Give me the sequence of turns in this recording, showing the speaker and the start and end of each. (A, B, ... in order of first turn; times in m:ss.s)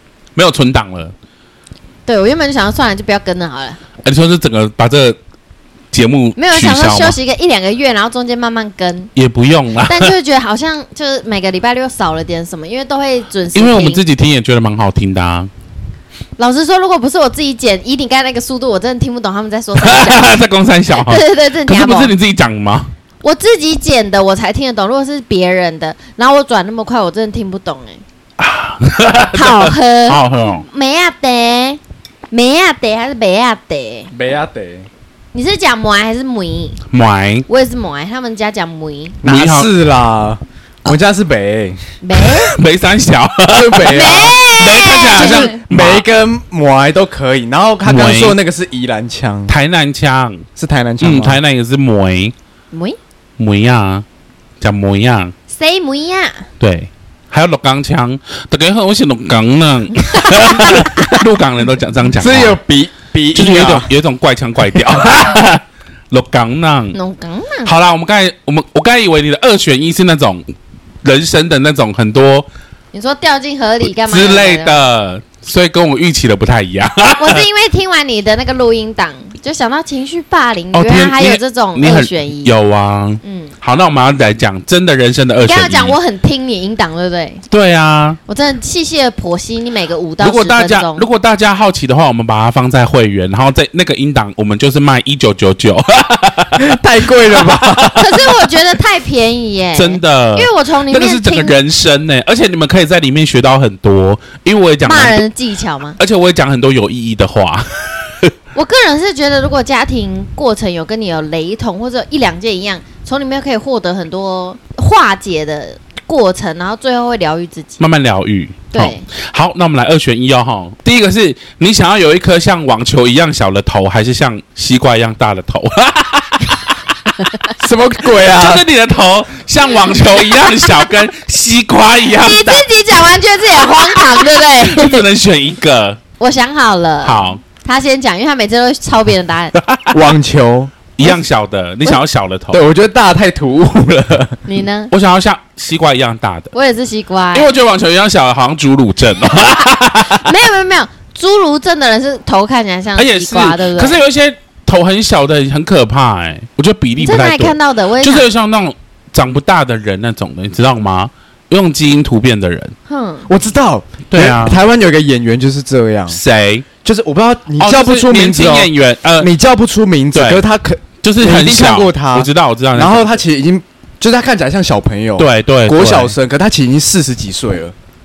0:00.4-0:01.1 A
0:02.1-0:03.8 B
0:04.0-0:05.2 A
0:05.9-0:07.2 A
0:06.4-0:09.1 B
0:09.2-0:10.1 A
0:09.8-0:14.0 B
0:13.5-0:15.5 A
0:16.4-0:20.4 B
0:19.8-0:22.9 A
0:20.9-0:22.1 B
0:23.2-0:28.0 B
0:28.4-0:30.6 A
0:29.3-0:31.8 B
0:32.3-0:34.1 B
0:34.1-0:34.9 C
0:35.3-0:36.8 B
0:36.9-0:37.4 A
0:37.5-0:39.2 B
0:39.2-0:39.7 A
0:39.2-0:41.8 C
0:42.0-0:42.6 B
0:42.2-0:46.1 A
0:43.5-0:44.4 C
0:43.8-0:45.5 B
0:45.1-0:49.5 C
0:47.8-0:48.4 A
0:49.5-0:50.4 A
0:50.6-0:51.4 C
0:51.0-0:52.3 A
0:52.7-0:53.0 B
0:53.4-0:54.0 A
0:54.6-0:55.3 A
0:55.5-0:56.4 B
0:56.6-1:02.6 A
1:00.0-1:01.2 B
1:02.2-1:03.9 C
1:03.3-1:07.0 A
1:06.9-1:07.7 B
1:07.6-1:12.5 A
1:12.9-1:14.8 B
1:13.9-1:17.4 A
1:17.2-1:22.5 B
1:20.7-1:26.0 A
1:23.2-1:23.5 B
1:25.4-1:27.4 B
1:27.5-1:28.2 A
1:28.3-1:31.0 B
1:30.2-1:36.7 A
1:36.6-1:38.0 C
1:37.3-1:38.0 A
1:37.9-1:41.6 B
1:39.7-1:45.2 A
1:44.8-1:46.0 B
1:46.0-1:48.3 A
1:48.5-1:57.8 B
1:57.8-2:07.3 A
1:58.7-1:59.0 B
2:07.6-2:08.6 C
2:08.1-2:12.7 A
2:12.1-2:15.0 B
2:13.8-2:16.0 A
2:16.2-2:19.6 B
2:17.0-2:17.4 A
2:19.6-2:19.9 A
2:19.9-2:20.7 C
2:21.0-2:22.6 A
2:22.5-2:24.4 C
2:24.4-2:24.9 B
2:24.9-2:26.5 A
2:26.5-2:27.5 B
2:27.3-2:30.3 A
2:29.3-2:34.0 B
2:33.0-2:42.7 A
2:37.0-2:38.3 B
2:42.9-2:43.3 B
2:43.3-2:46.2 C
2:44.1-2:44.6 A
2:46.1-2:46.6 A
2:46.8-2:57.7 C
2:47.6-2:49.3 A
2:50.1-2:50.4 A
2:51.0-2:53.2 A
2:55.2-2:56.1 A